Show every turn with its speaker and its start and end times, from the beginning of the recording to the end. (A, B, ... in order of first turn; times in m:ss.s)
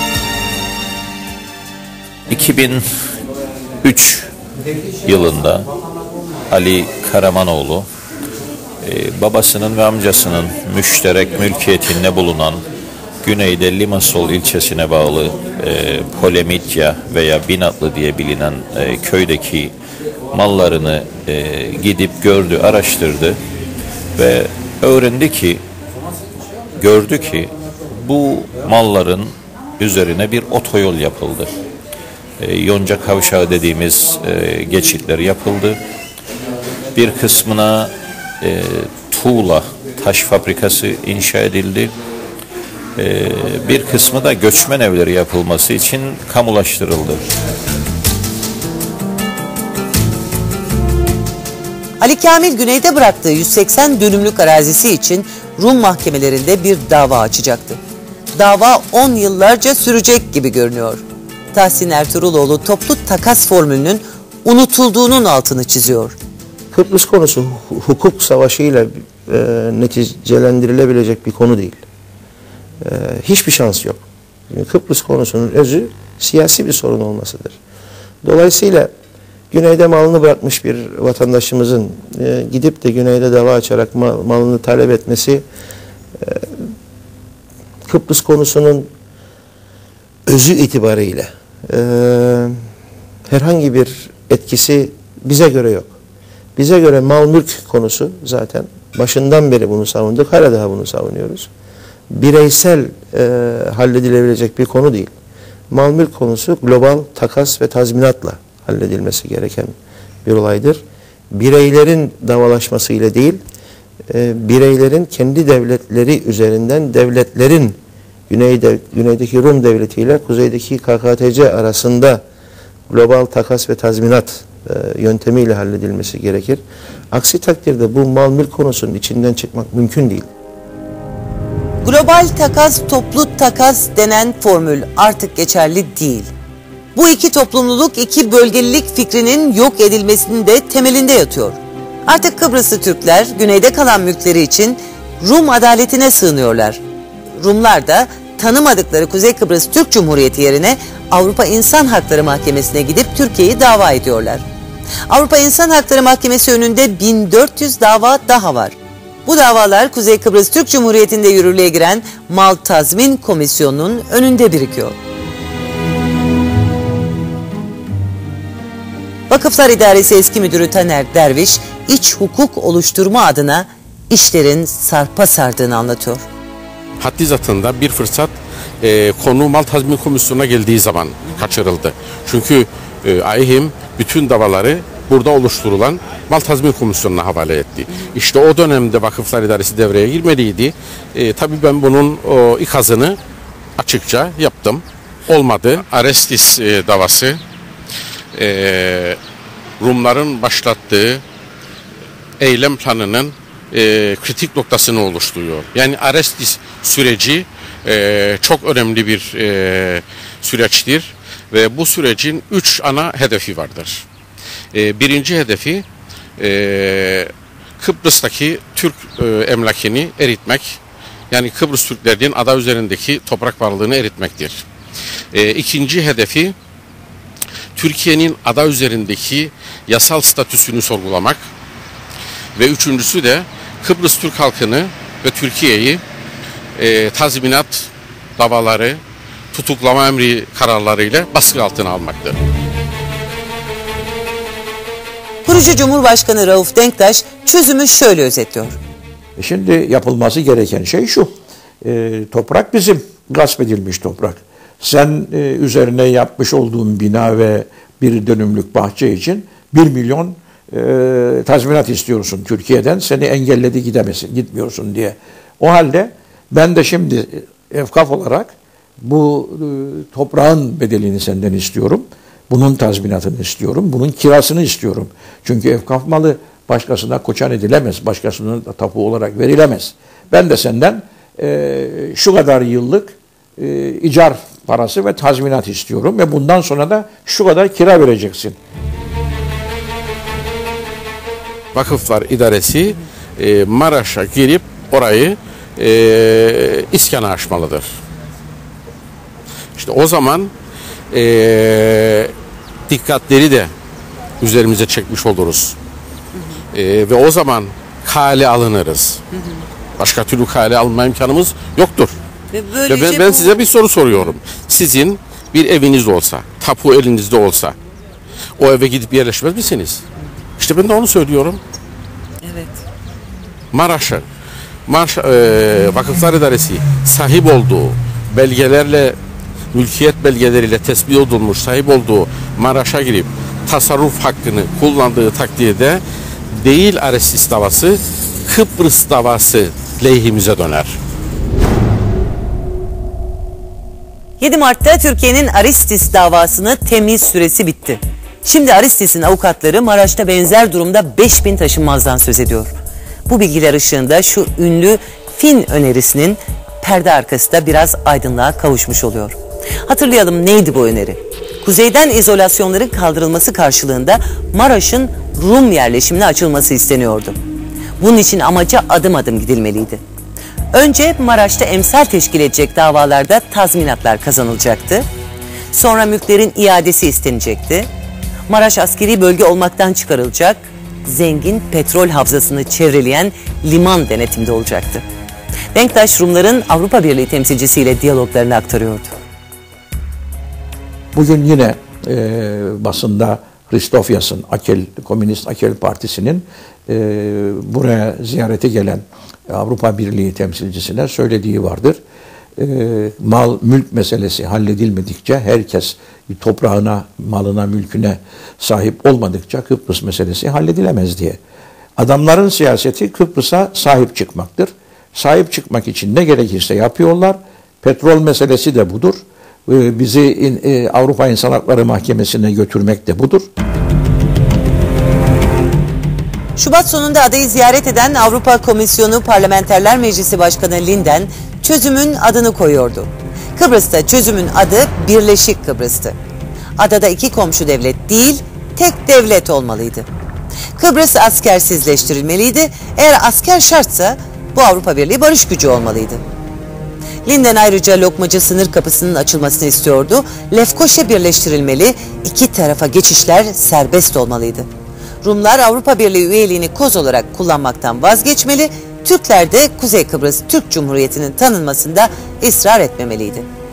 0:02.3-0:02.9 A
0:03.8-0:04.3 A
0:05.0-0:05.7 A
0:06.5-0:07.9 A
0:08.8-0:12.6 A
0:13.2-0:19.8 A
0:20.3-0:23.4 A
0:24.2-0:25.6 A
0:26.8-0:31.5 A
0:32.4-0:35.8 A
0:36.9-0:41.9 A
0:43.0-0:47.2 A
0:52.0-0:57.8 B
0:58.4-1:06.2 B
1:06.7-1:11.8 C
1:12.8-1:17.6 C
1:18.2-1:18.9 C
1:19.5-1:25.4 C
1:26.2-1:26.5 C
1:27.9-1:28.9 C
1:30.3-1:32.5 C
1:33.3-1:35.9 C
1:36.6-1:41.5 C
1:42.1-1:45.1 C
1:45.7-1:49.7 C
1:50.2-1:53.4 C
1:54.1-1:57.8 C
1:58.3-2:02.2 C
2:02.9-2:06.6 C
2:07.1-2:10.3 C
2:11.8-2:16.3 B
2:17.0-2:26.8 B
2:27.4-2:34.4 B
2:35.1-2:45.0 B
2:49.3-2:56.2 B
2:57.0-3:13.2 D
3:13.8-3:17.4 D
3:18.3-3:19.2 D
3:19.8-3:21.2 D
3:22.4-3:34.0 D
3:34.7-3:35.9 D
3:36.4-3:44.6 D
3:45.3-3:46.6 D
3:47.8-3:51.4 D
3:52.6-3:56.0 D
3:56.8-3:59.0 D
3:59.5-4:02.4 D
4:05.4-4:08.8 B
4:09.4-4:11.3 E
4:11.8-4:48.6 E
4:51.7-4:57.9 D
4:59.8-5:00.5 D
5:01.1-5:02.3 D
5:02.9-5:03.7 D
5:04.4-5:05.8 D
5:06.3-5:06.6 B
5:06.7-5:09.2 D
5:09.3-5:09.6 B
5:10.0-5:12.2 D
5:12.5-5:13.5 B
5:12.9-5:17.8 D
5:18.6-5:20.1 D
5:20.6-5:21.6 D
5:22.4-5:22.8 B
5:23.7-5:24.2 D
5:24.9-5:29.2 D
5:29.7-5:41.0 D
5:44.4-5:52.7 B
5:53.3-6:07.4 B
6:08.0-6:10.0 B
6:10.7-6:15.1 B
6:15.7-6:17.9 B
6:18.5-6:25.0 B
6:25.7-6:29.1 B
6:31.1-6:42.0 E
6:42.6-6:51.4 E
6:52.0-7:03.5 E
7:06.6-7:16.2 B
7:16.8-7:20.1 B
7:20.8-7:26.2 B
7:27.2-7:34.7 B
7:35.2-7:43.5 B